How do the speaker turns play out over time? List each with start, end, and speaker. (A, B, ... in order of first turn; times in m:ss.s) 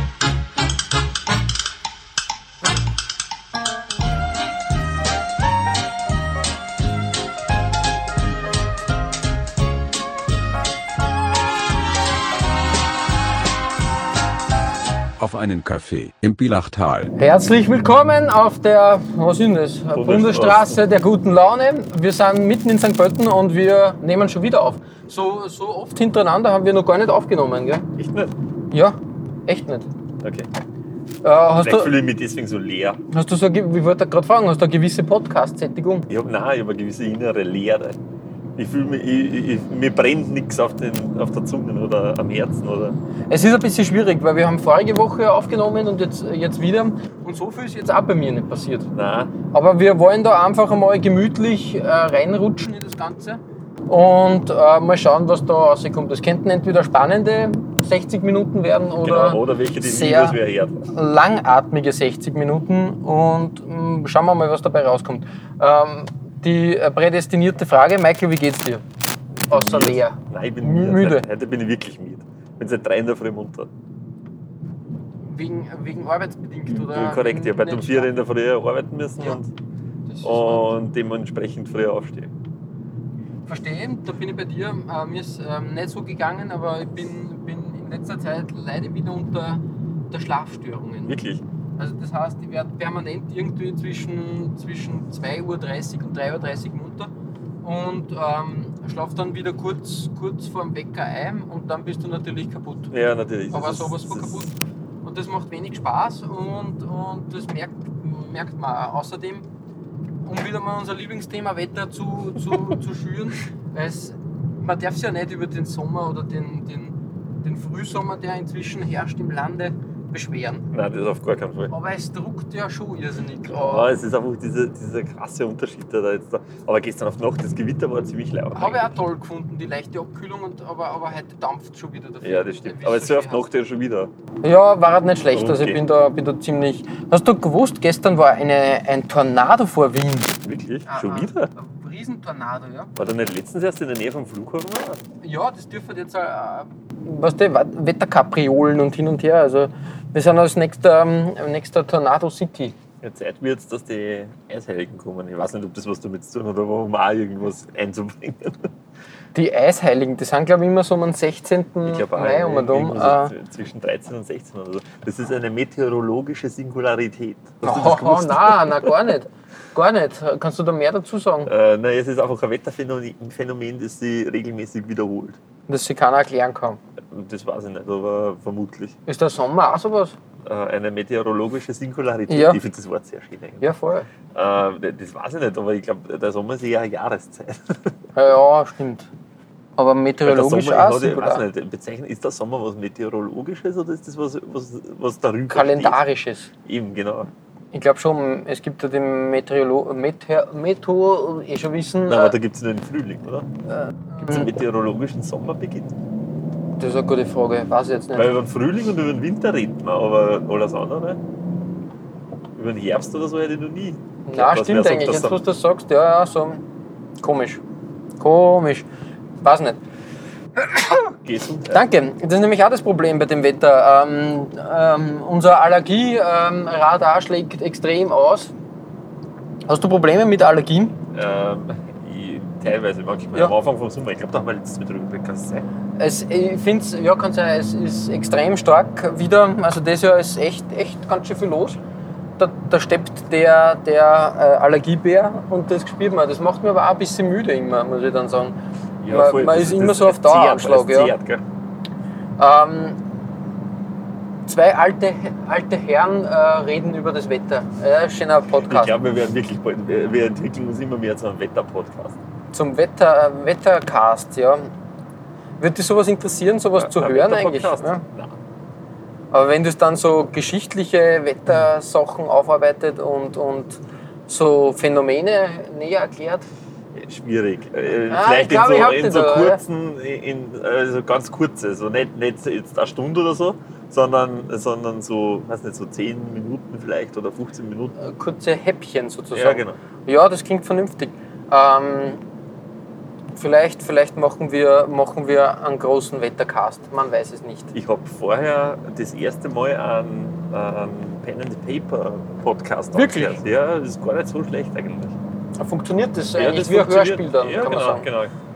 0:15.2-0:17.1 A
0:17.2-0:27.9 B
0:19.9-0:20.8 C
0:28.0-0:28.3 C
0:28.7-0:29.9 B
0:30.2-0:30.5 C
0:31.2-0:32.0 B
0:31.6-0:33.0 C
0:33.1-0:36.1 B
0:36.1-0:38.0 C
0:38.6-0:43.0 C
0:43.3-0:48.9 B
0:48.9-0:49.3 C
0:49.5-1:00.4 B
0:59.0-1:00.9 C
1:00.9-1:08.8 B
1:09.5-1:13.7 C
1:09.5-1:11.3 B
1:15.3-1:18.1 B
1:16.7-1:19.5 C
1:20.1-1:20.8 B
1:20.2-1:22.3 C
1:23.4-1:31.2 B
1:31.1-1:31.4 C
1:31.8-1:37.1 B
1:37.6-1:42.9 B
1:42.9-1:44.4 C
1:43.5-1:49.4 B
1:50.2-2:00.7 B
2:00.7-2:01.7 C
2:01.7-2:03.9 B
2:03.5-2:09.0 C
2:08.5-2:13.4 B
2:12.2-2:14.1 C
2:14.4-2:22.9 B
2:15.3-2:15.8 C
2:20.4-2:21.5 C
2:22.9-2:25.0 C
2:25.2-2:32.8 B
2:33.0-2:38.7 C
2:39.3-2:43.3 B
2:41.8-2:49.0 C
2:47.6-2:51.5 B
2:51.4-2:55.4 C
2:55.7-2:56.8 B
2:57.1-2:59.0 C
2:59.1-3:00.1 B
3:00.4-3:03.6 C
3:02.3-3:02.6 B
3:03.6-3:04.1 B
3:04.3-3:07.9 C
3:08.1-3:09.1 B
3:09.8-3:11.4 B
3:10.2-3:16.0 C
3:15.5-3:16.5 B
3:16.6-3:17.3 C
3:17.7-3:22.4 B
3:22.1-3:23.5 C
3:23.7-3:24.5 B
3:24.2-3:25.9 C
3:26.8-3:28.3 B
3:28.1-3:31.2 C
3:32.5-3:35.4 C
3:34.2-3:36.6 B
3:37.2-3:37.6 B
3:38.2-3:38.8 B
3:39.4-3:39.8 B
3:40.8-3:41.8 C
3:41.7-3:48.5 B
3:49.7-3:51.0 B
3:51.1-3:55.7 C
3:56.0-4:01.8 B
4:02.4-4:08.6 B
4:09.0-4:11.4 C
4:09.1-4:11.1 B
4:12.4-4:13.0 B
4:14.5-4:18.9 B
4:18.6-4:22.2 C
4:22.5-4:24.7 B
4:25.6-4:28.0 B
4:26.8-4:28.4 C
4:29.3-4:36.4 B
4:36.9-4:48.0 C
4:38.1-4:39.6 B
4:48.0-4:52.2 B
4:49.3-4:49.8 C
4:53.3-4:57.7 B
4:57.7-5:05.2 C
5:02.9-5:03.4 B
5:05.6-5:08.1 B
5:06.4-5:08.3 C